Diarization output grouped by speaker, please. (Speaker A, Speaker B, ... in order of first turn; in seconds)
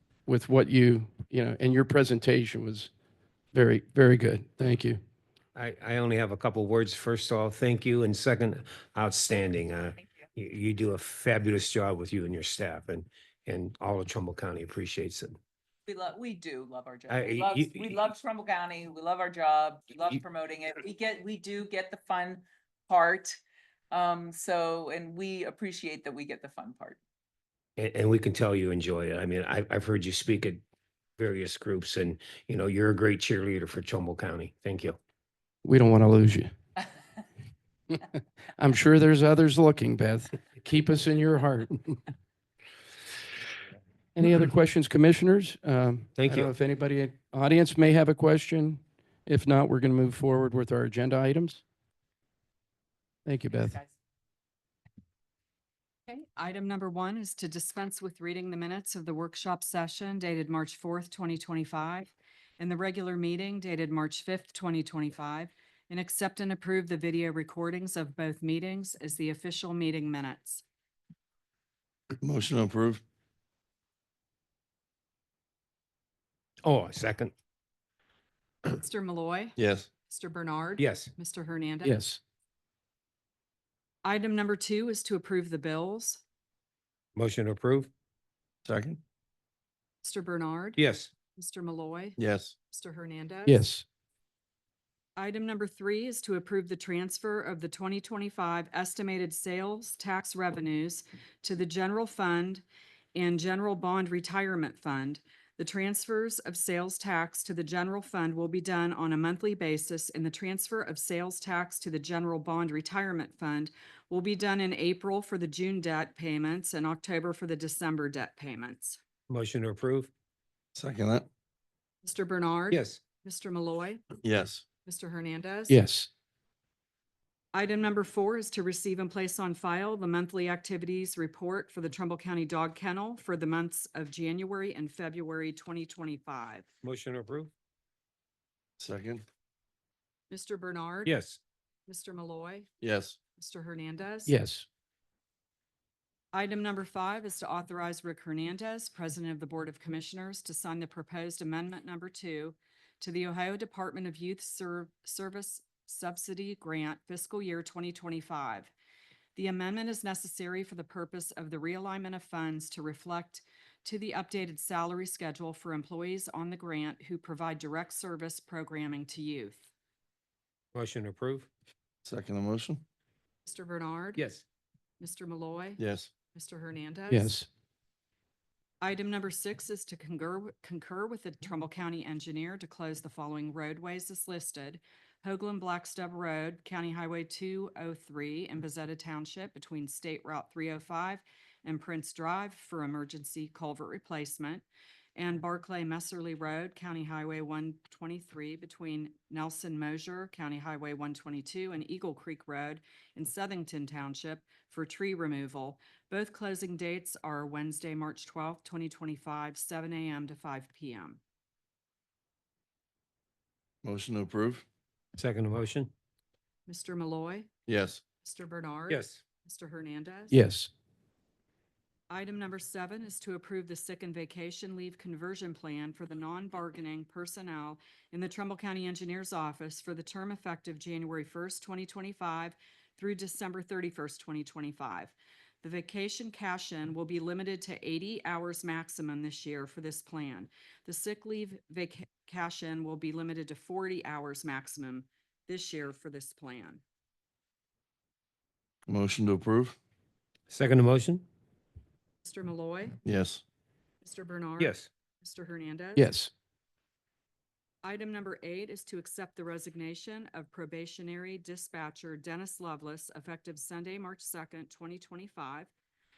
Speaker A: 0.3-2.9, 3.5-5.0, 35.6-36.5, 38.6-41.8, 44.1-51.6, 53.2-53.8, 81.8-82.2, 93.5-93.8, 125.7-126.1, 144.3-144.7, 177.1-177.5, 220.3-220.7, 255.9-256.3
Speaker B: 5.5-15.4, 17.1-17.9, 27.8-30.6, 31.2-35.0, 46.2-46.5, 76.6-77.3, 80.8-81.1, 87.2-87.9, 90.8-91.1, 119.3-120.1, 122.7-123.0, 136.8-137.5, 141.1-141.4, 170.7-171.5, 174.2-174.4, 215.2-215.9, 218.9-219.2, 250.5-251.2, 254.6-254.8
Speaker C: 15.9-23.4, 23.9-27.0, 53.6-53.9
Speaker D: 56.1-70.6, 78.7-79.6, 80.1-82.0, 84.0-86.2, 90.0-90.8, 91.3-92.2, 92.7-93.6, 95.2-102.6, 103.1-119.0, 122.0-124.0, 124.8-125.8, 127.5-136.7, 140.3-141.2, 141.9-142.7, 143.4-144.3, 146.3-158.7, 159.3-169.6, 173.4-174.2, 175.0-175.8, 176.3-177.3, 178.8-194.6, 195.2-211.2, 216.7-217.5, 218.2-220.3, 222.1-246.8, 252.2-253.0, 254.0-256.1, 257.8-265.7
Speaker E: 72.2-73.0, 79.6-79.9, 88.7-89.0, 92.2-92.5, 120.7-121.3, 124.2-124.6, 138.8-139.2, 142.8-143.2, 172.0-172.8, 175.8-176.1, 213.8-214.6, 217.7-218.0, 248.9-249.8, 253.0-253.4